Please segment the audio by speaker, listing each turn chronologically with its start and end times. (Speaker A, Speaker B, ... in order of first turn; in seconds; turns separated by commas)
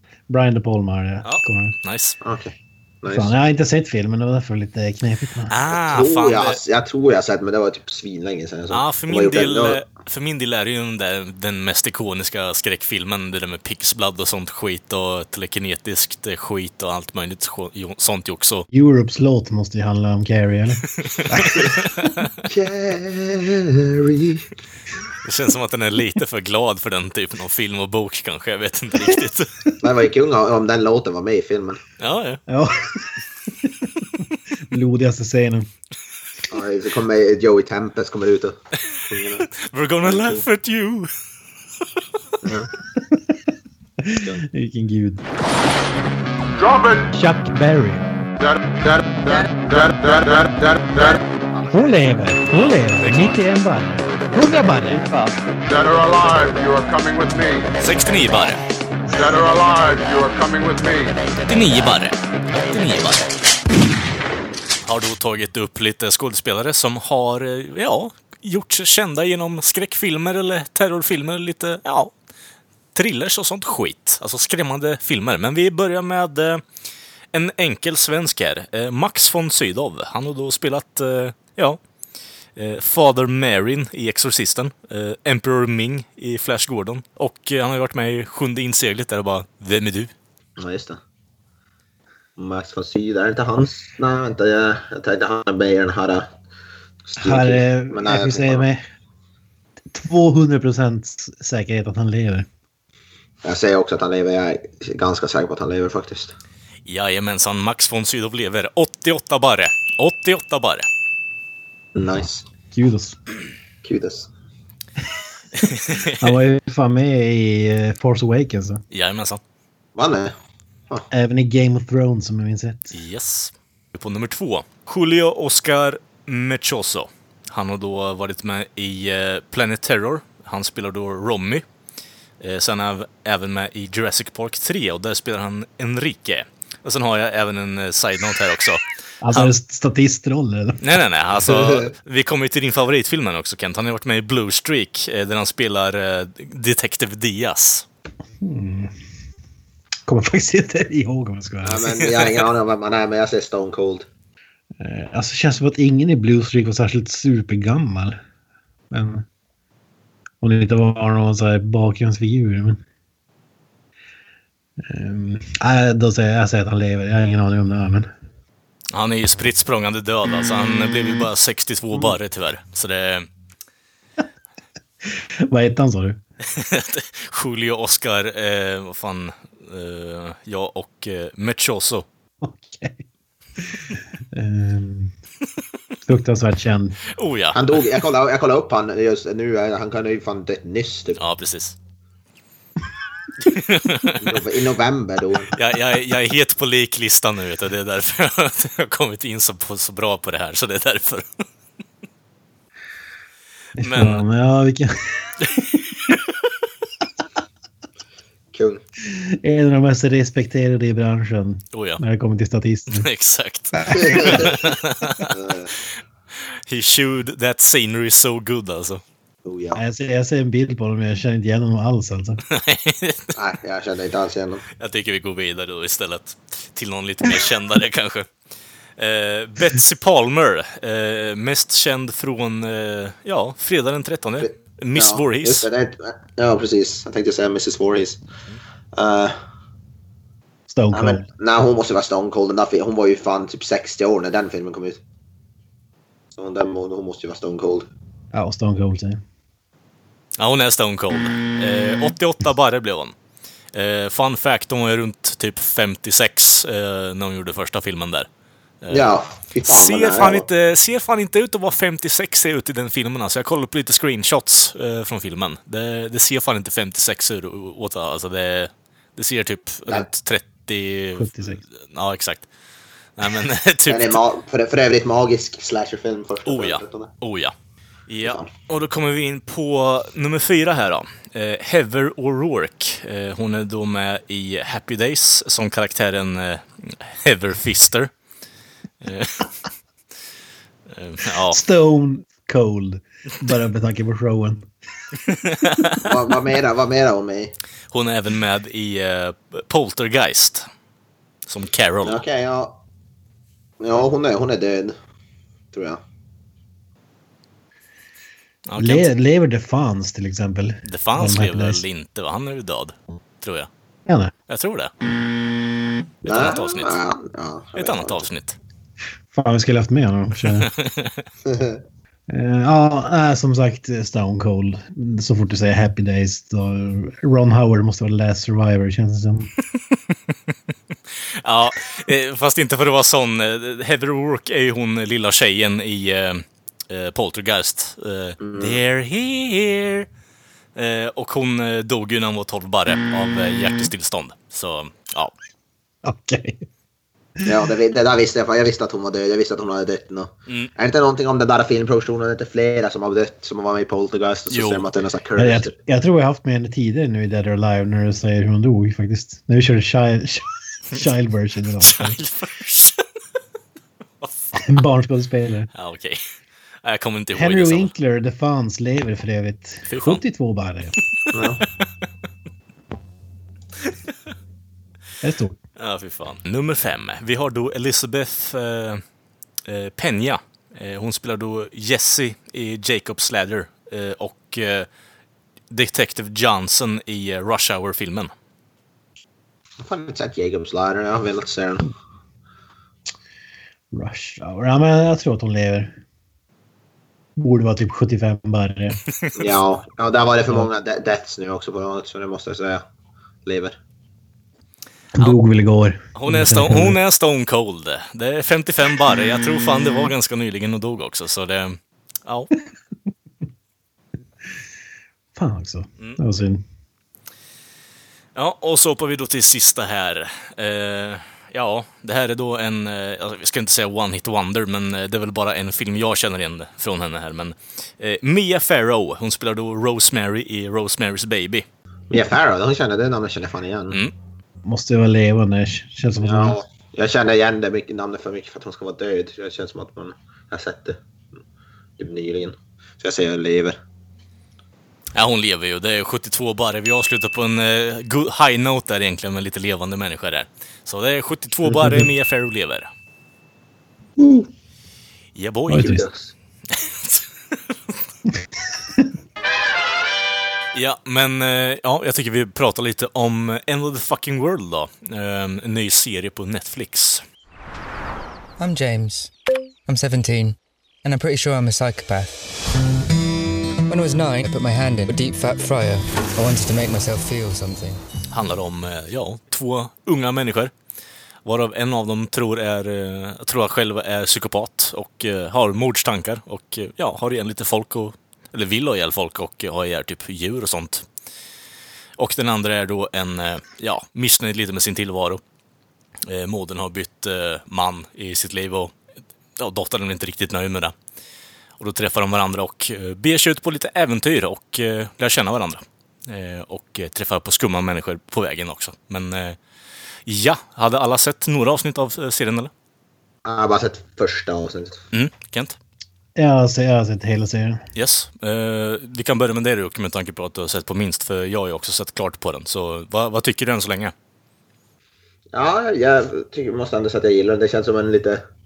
Speaker A: 0.3-1.8, Speaker B: 1.2-2.2, Speaker C: 2.2-3.3, Speaker A: 3.1-5.5, Speaker B: 5.5-6.6, Speaker C: 5.9-9.8, Speaker B: 8.7-18.6, Speaker A: 18.7-20.8, Speaker B: 21.1-22.3, Speaker C: 21.4-21.7, Speaker C: 22.4-24.5, Speaker B: 25.2-29.5, Speaker C: 29.8-31.8, Speaker B: 32.0-32.4, Speaker A: 32.5-33.9, Speaker A: 34.7-35.7, Speaker C: 36.5-39.5, Speaker B: 39.6-41.1, Speaker C: 40.0-40.4, Speaker C: 42.4-42.7, Speaker A: 44.0-45.2, Speaker D: 46.6-47.1, Speaker A: 47.1-48.1, Speaker D: 48.4-51.2, Speaker A: 51.7-55.1, Speaker D: 55.7-57.8, Speaker B: 57.8-58.6, Speaker D: 59.1-61.2, Speaker B: 61.5-63.3, Speaker B: 64.8-72.1, Speaker B: 72.9-76.6, Speaker B: 77.3-81.8, Speaker B: 82.6-90.1, Speaker C: 90.6-91.0, Speaker C: 92.4-96.3, Speaker C: 97.1-98.7, Speaker A: 97.2-98.8, Speaker A: 99.9-102.5, Speaker C: 103.4-106.3, Speaker B: 106.9-110.9, Speaker C: 111.9-112.5, Speaker A: 112.7-113.2, Speaker C: 113.8-114.3, Speaker B: 115.6-116.3, Speaker A: 116.2-118.8, Speaker B: 118.9-119.4, Speaker C: 120.0-120.3, Speaker A: 121.1-122.9, Speaker B: 122.9-131.6, Speaker B: 132.4-139.5, Speaker A: 139.2-140.8, Speaker B: 140.8-147.8, Speaker C: 141.5-141.9, Speaker A: 148.4-148.9, Speaker A: 150.1-152.1, Speaker C: 151.6-154.1, Speaker A: 154.8-158.2, Speaker A: 158.9-159.2, Speaker A: 160.4-162.8, Speaker A: 164.8-168.1, Speaker B: 168.9-173.3, Speaker A: 175.0-176.2, Speaker B: 176.5-182.1, Speaker A: 182.4-183.0, Speaker A: 183.7-185.1, Speaker A: 186.1-187.0, Speaker B: 187.2-187.6, Speaker C: 187.5-191.2, Speaker B: 191.2-191.8, Speaker B: 193.4-194.3, Speaker C: 194.2-195.6, Speaker B: 195.6-201.4, Speaker B: 203.8-204.2, Speaker A: 203.8-205.9, Speaker C: 208.5-208.8, Speaker A: 209.0-213.1, Speaker B: 211.7-212.0, Speaker B: 212.9-215.3, Speaker C: 214.0-214.5, Speaker C: 215.3-215.7, Speaker B: 216.7-219.0, Speaker C: 219.4-219.8, Speaker A: 219.7-222.4, Speaker B: 222.5-223.3, Speaker C: 223.3-224.7, Speaker B: 224.8-228.2, Speaker B: 229.0-235.7, Speaker C: 234.4-238.2, Speaker C: 238.9-239.3, Speaker A: 240.7-241.2, Speaker C: 240.9-245.0, Speaker C: 246.4-247.9, Speaker A: 248.3-249.2, Speaker B: 250.4-253.2, Speaker B: 253.7-258.3, Speaker B: 258.8-259.1, Speaker C: 258.9-260.4, Speaker B: 259.6-272.5, Speaker A: 271.2-271.6, Speaker B: 273.2-274.2, Speaker C: 273.9-277.1, Speaker B: 276.4-277.5, Speaker B: 278.1-288.1, Speaker C: 278.2-278.5, Speaker B: 289.0-289.5, Speaker B: 290.9-291.6, Speaker A: 291.4-294.7, Speaker B: 295.2-296.0, Speaker C: 296.0-297.5, Speaker B: 297.9-300.7, Speaker B: 301.5-302.2, Speaker C: 302.0-302.8, Speaker C: 303.8-304.9, Speaker C: 305.7-306.0, Speaker B: 308.7-309.1, Speaker A: 308.8-311.8, Speaker B: 310.8-313.7, Speaker A: 314.1-314.3, Speaker B: 314.5-314.9, Speaker B: 316.2-317.0, Speaker C: 316.2-318.2, Speaker B: 317.8-318.6, Speaker A: 319.3-320.7, Speaker B: 320.4-321.2, Speaker C: 321.4-321.8, Speaker A: 322.3-329.5, Speaker B: 331.4-340.1, Speaker C: 338.4-338.8, Speaker B: 340.7-345.3, Speaker A: 346.0-346.6, Speaker C: 347.4-355.7, Speaker B: 354.5-354.8, Speaker A: 355.4-362.2, Speaker B: 361.8-363.0, Speaker B: 364.2-364.6, Speaker A: 364.6-365.7, Speaker B: 365.7-366.2, Speaker B: 366.8-367.9, Speaker A: 367.3-370.9, Speaker B: 369.9-370.2, Speaker C: 371.3-371.6, Speaker A: 375.2-375.6, Speaker B: 375.8-379.0, Speaker B: 379.7-384.9, Speaker B: 385.7-388.3, Speaker C: 389.8-391.9, Speaker A: 393.9-396.0, Speaker A: 397.4-399.0, Speaker C: 399.4-402.8, Speaker C: 403.4-403.8, Speaker A: 405.1-407.0, Speaker B: 406.1-412.5, Speaker A: 415.4-416.6, Speaker B: 418.3-431.7, Speaker C: 432.1-434.0, Speaker A: 434.7-436.6, Speaker C: 436.2-441.0, Speaker C: 442.0-443.8, Speaker B: 445.1-452.9, Speaker A: 451.7-452.1, Speaker A: 454.2-454.5, Speaker B: 455.3-456.1, Speaker A: 455.7-456.0, Speaker C: 455.8-456.3, Speaker B: 456.7-457.2, Speaker B: 460.7-467.2, Speaker E: 468.6-469.3, Speaker E: 469.9-472.5, Speaker E: 473.9-478.1, Speaker B: 478.3-480.7, Speaker B: 481.4-491.1, Speaker B: 492.2-495.4, Speaker B: 496.2-498.9, Speaker B: 499.6-500.9, Speaker B: 501.8-509.6, Speaker B: 510.2-512.7, Speaker C: 513.4-515.0, Speaker B: 515.1-515.8, Speaker A: 516.4-517.9, Speaker B: 517.9-524.1, Speaker C: 525.5-528.4